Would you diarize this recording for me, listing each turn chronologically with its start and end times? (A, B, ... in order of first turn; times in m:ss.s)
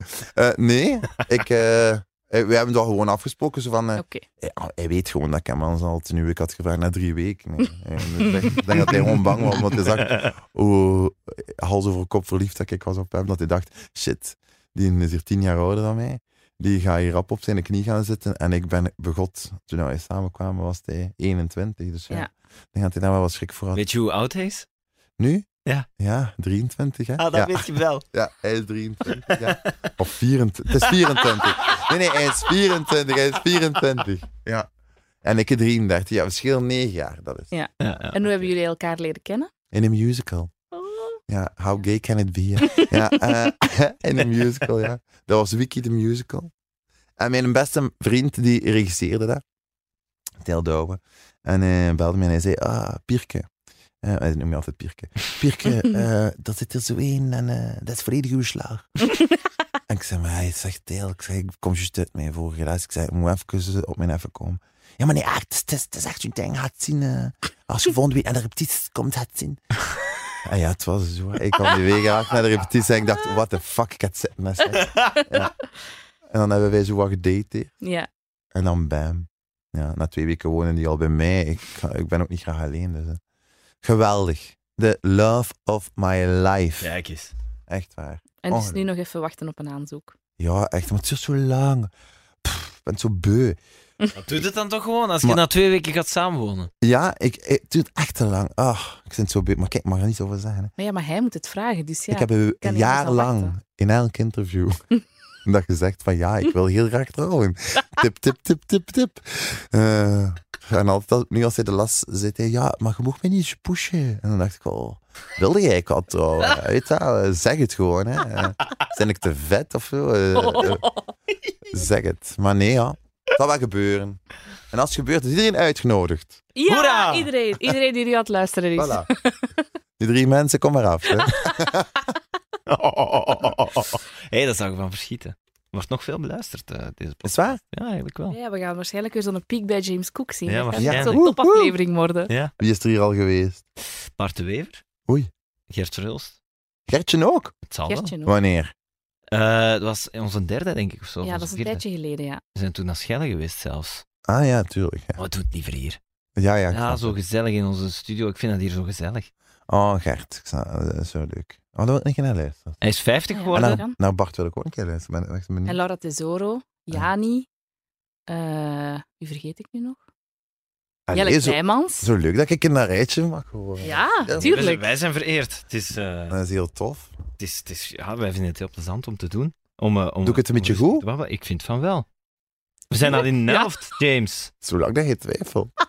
0:00.1-0:23.8 A
0:04.0-0:04.2 B
0:08.7-0:10.3 C
0:23.7-0:24.6 C
0:25.2-0:25.5 A
0:26.0-0:34.7 A
0:27.2-0:28.0 C
0:29.0-0:29.9 C
0:30.8-0:31.9 C
0:35.2-0:37.5 A
0:37.5-0:39.5 B
0:37.8-0:38.3 C
0:39.7-0:40.5 A
0:40.7-0:41.2 B
0:41.3-0:46.5 A
0:42.7-0:43.4 B
0:47.2-0:49.4 A
0:50.4-0:53.5 A
0:54.0-0:58.9 A
0:59.9-1:09.6 A
1:10.4-1:15.5 A
1:16.3-1:17.7 A
1:17.8-1:18.1 B
1:18.5-1:23.2 A
1:23.8-1:26.9 A
1:26.8-1:27.3 C
1:27.7-1:28.8 A
1:28.4-1:30.1 B
1:30.4-1:31.9 A
1:32.4-1:33.6 A
1:34.2-1:36.7 C
1:36.8-1:40.7 A
1:40.8-1:43.5 B
1:42.1-1:44.8 A
1:45.4-2:00.8 A
2:00.3-2:01.1 B
2:01.7-2:04.2 A
2:04.7-2:06.4 A
2:06.5-2:09.4 B
2:06.7-2:07.7 C
2:08.8-2:09.1 A
2:10.0-2:11.9 A
2:11.1-2:11.7 B
2:12.7-2:18.4 C
2:17.2-2:17.6 A
2:18.3-2:22.3 B
2:20.5-2:21.2 C
2:20.8-2:21.7 A
2:22.6-2:23.6 A
2:24.2-2:24.8 C
2:25.7-2:26.4 C
2:26.9-2:27.5 A
2:27.7-2:28.1 C
2:27.9-2:28.3 B
2:28.1-2:28.7 A
2:29.3-2:31.8 C
2:31.2-2:32.4 B
2:32.5-2:34.0 C
2:34.3-2:35.2 A
2:35.2-2:36.0 C
2:36.4-2:37.1 A
2:36.7-2:39.3 C
2:39.7-2:42.8 A
2:42.8-2:43.8 C
2:43.3-2:43.9 B
2:43.5-2:45.8 A
2:45.6-2:47.5 B
2:48.3-2:50.0 B
2:51.1-2:54.6 A
2:51.1-2:52.1 B
2:53.8-2:54.8 B
2:54.4-2:56.4 C
2:56.3-2:57.1 A
2:57.4-3:02.0 C
3:00.2-3:01.0 A
3:02.9-3:04.5 C
3:03.0-3:03.8 B
3:04.6-3:05.7 A